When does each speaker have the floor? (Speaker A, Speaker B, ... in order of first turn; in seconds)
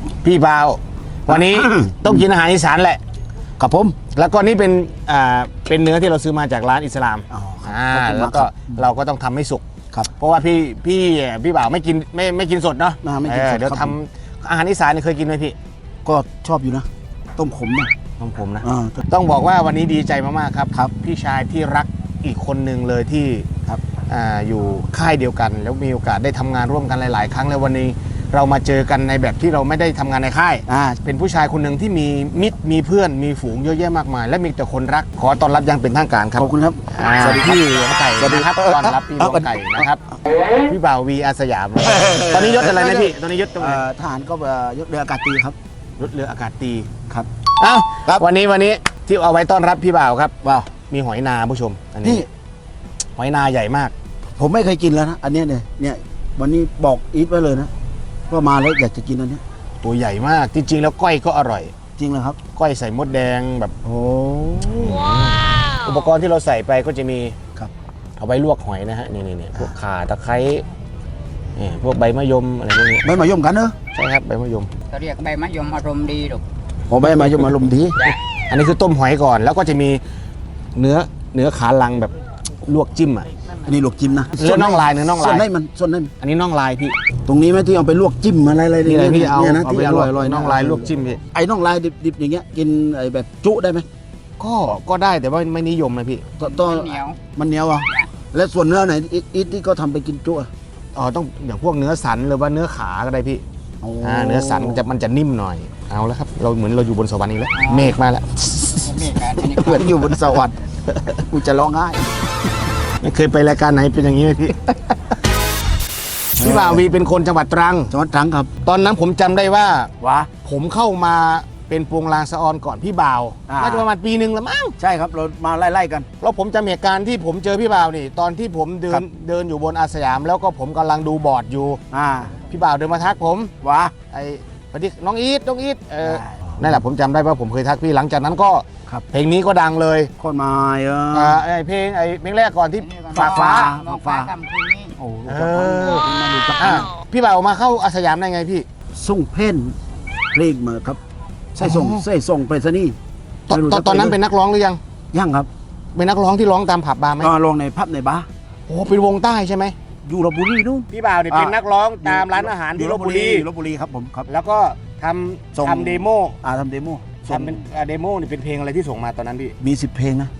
Speaker A: 0.2-3.0, 4.1-9.6, 10.2-15.6, 18.2-23.5, 24.1-40.0, 40.7-43.8, 46.0-46.9, 47.6-50.3, 50.9-52.3, 53.2-53.9, 59.8-61.7, 62.5-63.7, 64.8-67.4, 68.2-70.7, 71.6-73.0, 73.9-74.7, 78.1-80.0, 80.8-83.3, 84.4-85.5, 86.2-87.0, 88.8-91.2, 94.4-96.3, 101.0-103.4, 104.0-108.4, 113.0-115.1, 116.4-117.9, 118.6-119.9, 120.4-124.8, 126.2-131.8, 132.5-133.5, 134.1-140.1, 141.1-143.7, 145.3-146.1, 146.6-148.7, 151.6-152.1, 153.5-154.8, 155.9-157.3, 158.7-159.8, 160.9-163.5, 164.3-166.4, 167.3-169.6
Speaker B: 1.3-2.2, 3.6-4.0, 7.3-8.8, 13.0-13.9, 16.1-17.9, 18.6-19.0, 30.7-31.0, 36.4-39.9, 41.9-45.6, 50.4-50.7, 54.4-57.7, 58.3-59.4, 62.0-62.4, 63.8-65.0, 73.0-73.8, 76.9-78.0, 83.7-86.1, 87.3-93.9, 96.4-100.5, 103.8-104.8, 109.4-110.6, 111.3-112.2, 116.4-116.8, 117.9-118.5, 120.0-120.3, 123.5-123.9, 124.8-126.1, 131.9-132.4, 133.6-133.9, 136.0-136.6, 140.2-141.4, 143.1-144.3, 145.0-146.9, 148.9-149.8, 150.3-151.0, 151.6-153.0, 153.5-154.2, 155.1-155.5, 157.2-158.3, 160.1-164.3, 165.5-167.6, 169.6-170.3
Speaker C: 74.9-76.4, 96.4-97.2, 107.6-107.9, 108.7-110.1, 142.8-144.9